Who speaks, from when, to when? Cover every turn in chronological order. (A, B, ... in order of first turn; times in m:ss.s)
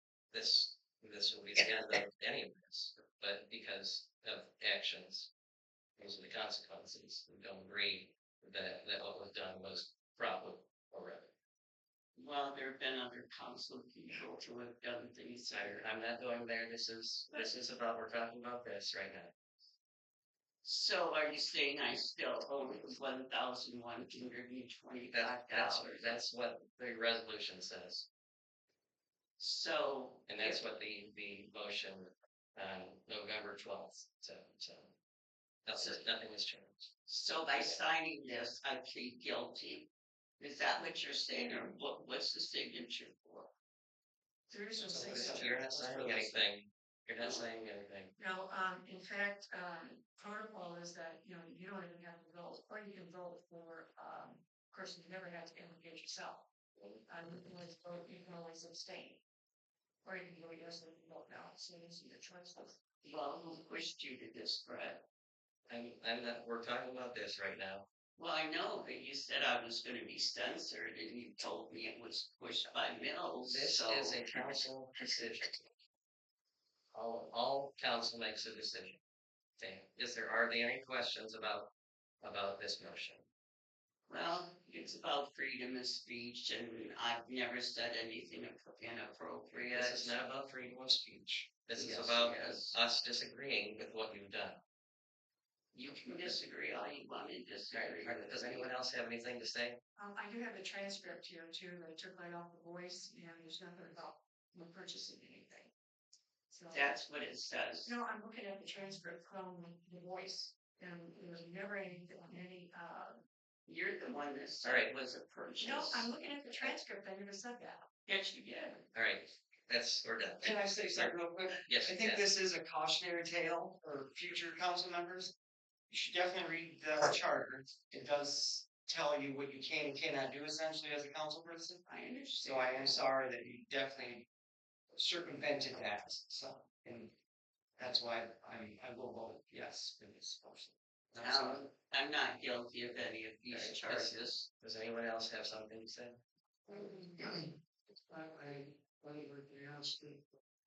0:00.3-0:05.3 A
0:06.0-0:11.3 A
0:12.2-0:15.9 B
0:15.5-0:19.3 A
0:20.6-0:26.1 B
0:25.1-0:28.1 A
0:29.4-0:30.6 B
0:30.3-0:34.9 A
0:35.6-0:36.9 A
0:35.7-0:36.0 B
0:37.1-0:43.5 B
0:44.5-0:45.6 C
0:44.8-0:46.4 D
0:45.0-0:48.1 A
0:48.2-0:56.4 C
0:57.1-0:59.2 C
1:00.0-1:02.8 C
1:03.0-1:05.0 B
1:05.7-1:07.8 A
1:08.2-1:14.4 B
1:13.5-1:15.5 A
1:16.9-1:19.0 A
1:19.6-1:21.7 A
1:22.2-1:23.2 A
1:24.1-1:30.2 B
1:29.7-1:34.6 A
1:31.8-1:32.8 B
1:35.7-1:38.7 B
1:37.7-1:39.8 A
1:40.0-1:45.7 C
1:46.5-1:46.9 C
1:46.7-1:47.9 B
1:47.8-1:53.2 C
1:53.7-1:56.7 B
1:54.6-1:54.9 A
1:55.6-1:57.8 C
1:58.0-1:58.8 B
1:58.9-2:01.1 A
2:00.4-2:05.3 D
2:01.6-2:02.2 A
2:05.9-2:11.8 D
2:11.9-2:13.0 B
2:12.4-2:14.2 D
2:14.9-2:17.1 D
2:17.8-2:21.6 D
2:21.2-2:24.5 B
2:23.5-2:26.2 A
2:26.7-2:27.5 D
2:28.1-2:30.2 D